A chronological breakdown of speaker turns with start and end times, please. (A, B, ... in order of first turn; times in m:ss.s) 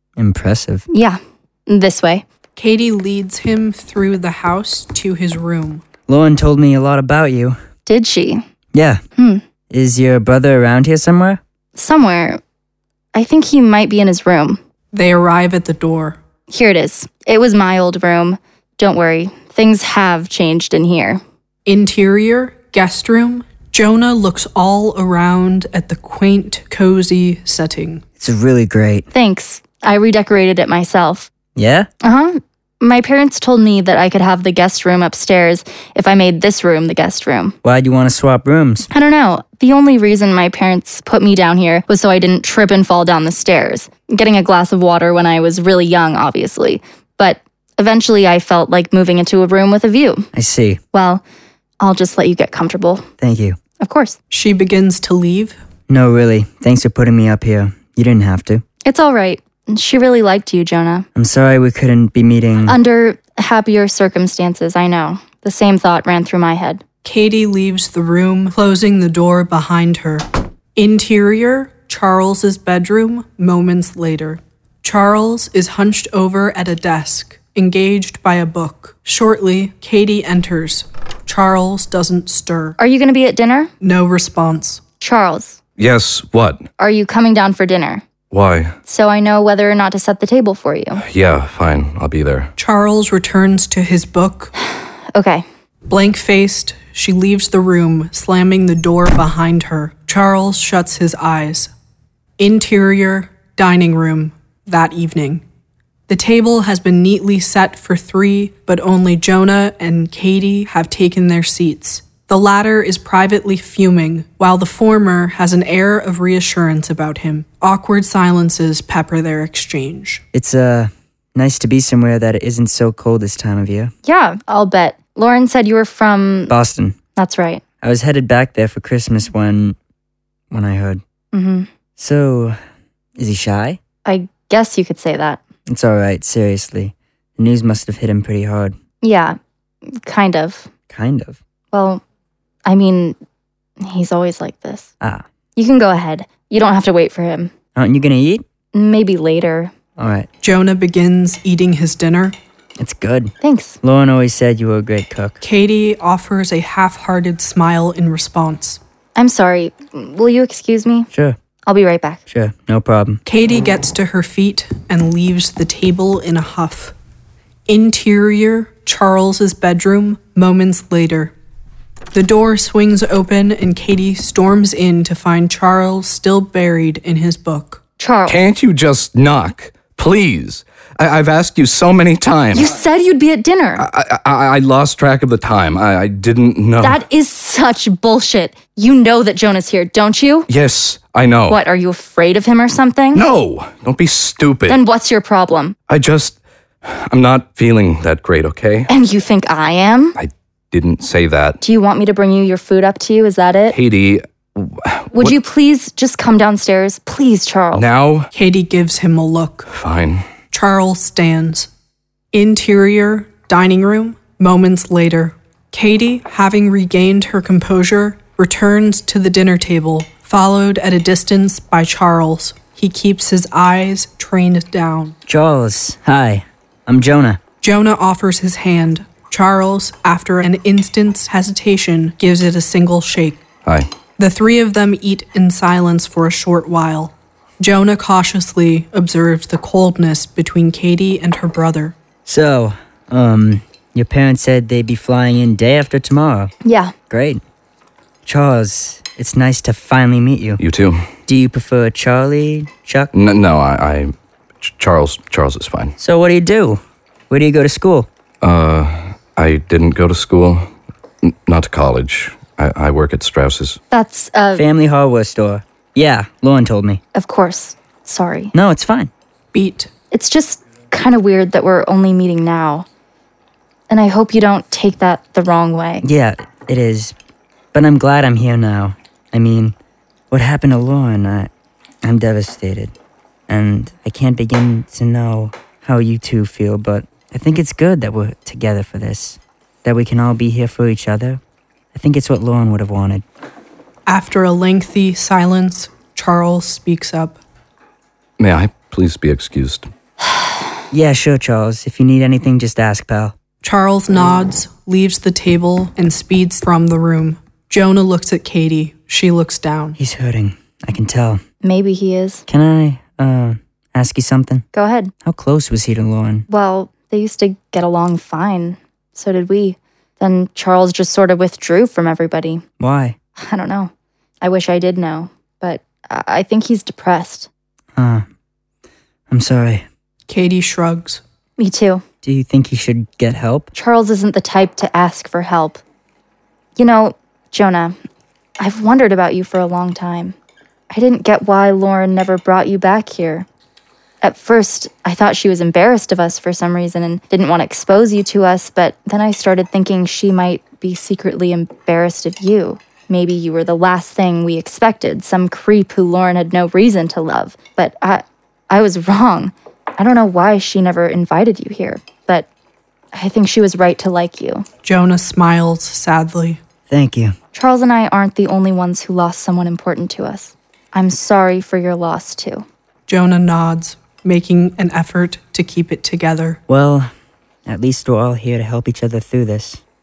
0:00.2-0:00.8 A
0:00.9-0:02.2 B
0:02.6-0:05.8 C
0:06.1-0:07.6 A
0:07.8-0:08.4 B
0:08.7-0:09.0 A
0:09.2-0:09.4 B
0:09.7-0:11.4 A
0:11.8-0:12.4 B
0:13.1-0:14.6 B
0:14.9-0:16.2 C
0:16.5-0:21.2 B
0:21.6-0:28.0 C
0:28.2-0:29.1 A
0:29.1-0:31.3 B
0:31.5-0:31.9 A
0:32.0-0:37.6 B
0:37.6-0:38.9 A
0:38.9-0:50.3 B
0:50.3-0:50.8 A
0:50.9-0:51.2 B
0:51.8-0:53.1 B
0:53.2-0:53.6 A
0:53.8-0:54.2 B
0:54.3-0:55.6 C
0:55.9-0:58.6 A
0:58.8-1:01.1 B
1:01.1-1:02.8 A
1:02.6-1:06.8 B
1:07.0-1:22.8 C
1:22.8-1:23.7 B
1:23.8-1:24.8 C
1:25.0-1:25.6 B
1:25.8-1:26.7 D
1:26.8-1:28.0 B
1:28.3-1:28.8 D
1:28.9-1:31.0 B
1:31.0-1:32.5 D
1:32.6-1:34.5 C
1:35.1-1:35.4 B
1:35.9-1:41.7 C
1:42.4-1:45.4 C
1:46.1-2:00.2 C
2:00.3-2:03.9 A
2:04.0-2:06.5 B
2:06.5-2:07.0 A
2:07.2-2:07.6 B
2:07.8-2:09.8 A
2:10.5-2:11.0 A
2:11.3-2:11.7 B
2:12.0-2:12.6 A
2:13.2-2:13.8 A
2:14.0-2:15.4 B
2:15.7-2:18.8 A
2:19.0-2:19.4 B
2:19.9-2:20.7 B
2:20.9-2:21.4 A
2:21.7-2:22.0 B
2:22.6-2:23.2 B
2:23.8-2:24.9 B
2:25.6-2:27.5 B
2:27.8-2:28.4 A
2:28.7-2:29.7 B
2:30.0-2:30.3 A
2:30.4-2:32.3 C
2:32.8-2:35.4 A
2:33.4-2:33.8 B
2:35.4-2:38.8 C
2:39.2-2:41.1 B
2:41.1-2:41.4 A
2:41.7-2:42.2 B
2:42.3-2:43.2 A
2:43.2-2:46.9 C
2:47.7-2:51.3 C
2:52.1-2:57.8 C
2:58.0-2:58.4 B
2:58.3-3:02.8 D
3:02.5-3:03.8 B
3:03.8-3:07.0 D
3:06.8-3:10.5 B
3:10.5-3:11.6 D
3:11.5-3:13.2 B
3:13.1-3:14.8 D
3:14.7-3:15.7 B
3:15.9-3:18.9 D
3:18.9-3:20.2 B
3:20.2-3:21.6 D
3:21.6-3:23.8 B
3:23.7-3:25.4 D
3:25.1-3:27.8 B
3:27.7-3:28.3 D
3:28.3-3:29.7 C
3:29.7-3:30.3 D
3:30.5-3:31.7 C
3:32.3-3:45.2 C
3:45.3-3:47.4 A
3:47.6-3:53.4 C
3:54.2-4:01.9 C
4:02.2-4:06.5 A
4:06.6-4:06.9 B
4:07.1-4:07.4 A
4:08.2-4:10.6 A
4:10.6-4:11.1 D
4:11.3-4:13.1 A
4:13.1-4:16.0 D
4:16.0-4:18.1 A
4:18.4-4:20.7 D
4:21.2-4:23.8 D
4:23.9-4:24.6 B
4:24.5-4:27.0 A
4:27.1-4:28.5 B
4:28.5-4:29.1 A
4:29.5-4:29.9 C
4:30.1-4:32.8 B
4:33.9-4:36.0 B
4:36.0-4:37.1 A
4:37.7-4:39.7 A
4:40.3-4:41.5 A
4:42.0-4:42.9 A
4:43.5-4:51.4 A
4:51.9-4:53.2 A
4:54.0-4:57.4 C
4:58.4-4:59.9 D
5:00.9-5:03.4 A
5:03.6-5:10.0 C
5:10.0-5:11.4 A
5:11.6-5:12.4 B
5:12.5-5:14.6 A
5:14.7-5:15.1 B
5:15.2-5:16.5 A
5:16.5-5:22.6 B
5:22.8-5:23.2 A
5:23.4-5:27.5 B
5:28.0-5:28.3 A
5:29.3-5:29.8 A
5:30.3-5:31.2 C
5:31.6-5:32.0 B
5:32.2-5:33.7 A
5:33.7-5:35.8 B
5:36.8-5:38.0 B
5:38.6-5:40.3 B
5:40.9-5:43.4 B
5:44.2-6:02.5 B
6:03.1-6:04.6 B
6:04.8-6:06.6 C
6:06.9-6:07.4 A
6:07.5-6:12.6 B
6:13.1-6:16.6 C
6:16.7-6:17.1 A
6:17.6-6:19.8 A